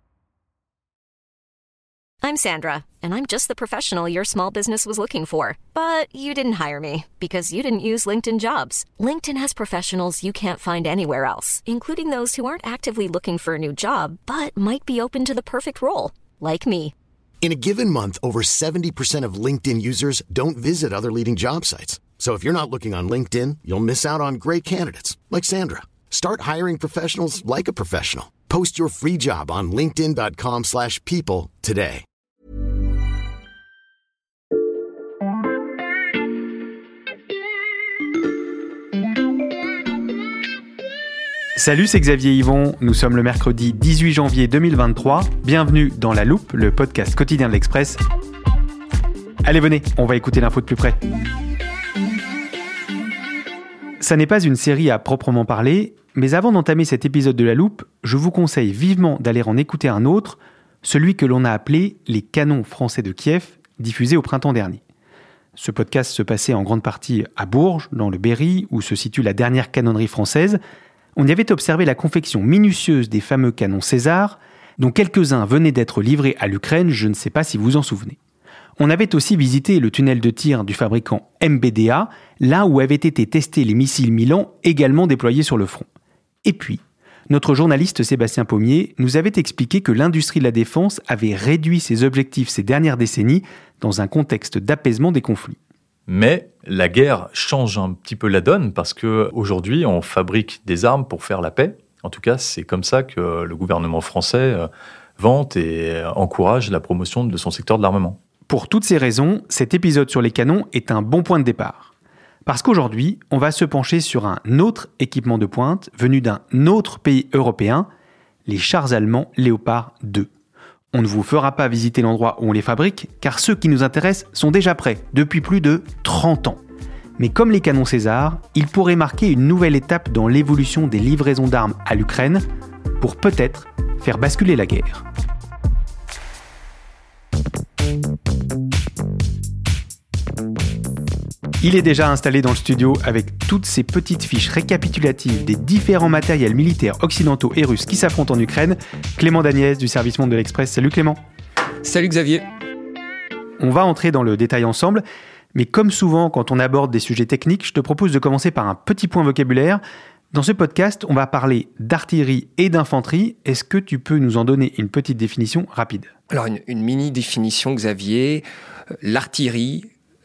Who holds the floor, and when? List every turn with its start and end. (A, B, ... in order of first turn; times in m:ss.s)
0:02.2-0:16.9 A
0:17.4-0:32.0 B
0:41.6-0:48.0 C
0:49.4-0:51.0 C
0:54.0-1:04.8 C
1:05.6-1:10.6 C
1:11.2-1:18.2 C
1:18.8-1:25.8 C
1:26.4-1:35.6 C
1:36.1-1:48.2 D
1:48.5-1:51.9 C
1:52.4-1:57.9 C
1:58.5-2:00.3 C
2:00.9-2:06.6 C
2:07.2-2:12.4 C
2:13.0-2:15.0 C
2:21.6-2:31.2 C
2:31.8-2:32.4 E
2:33.6-2:39.8 C
2:40.3-2:46.1 C
2:46.3-2:48.4 E
2:49.0-2:49.9 E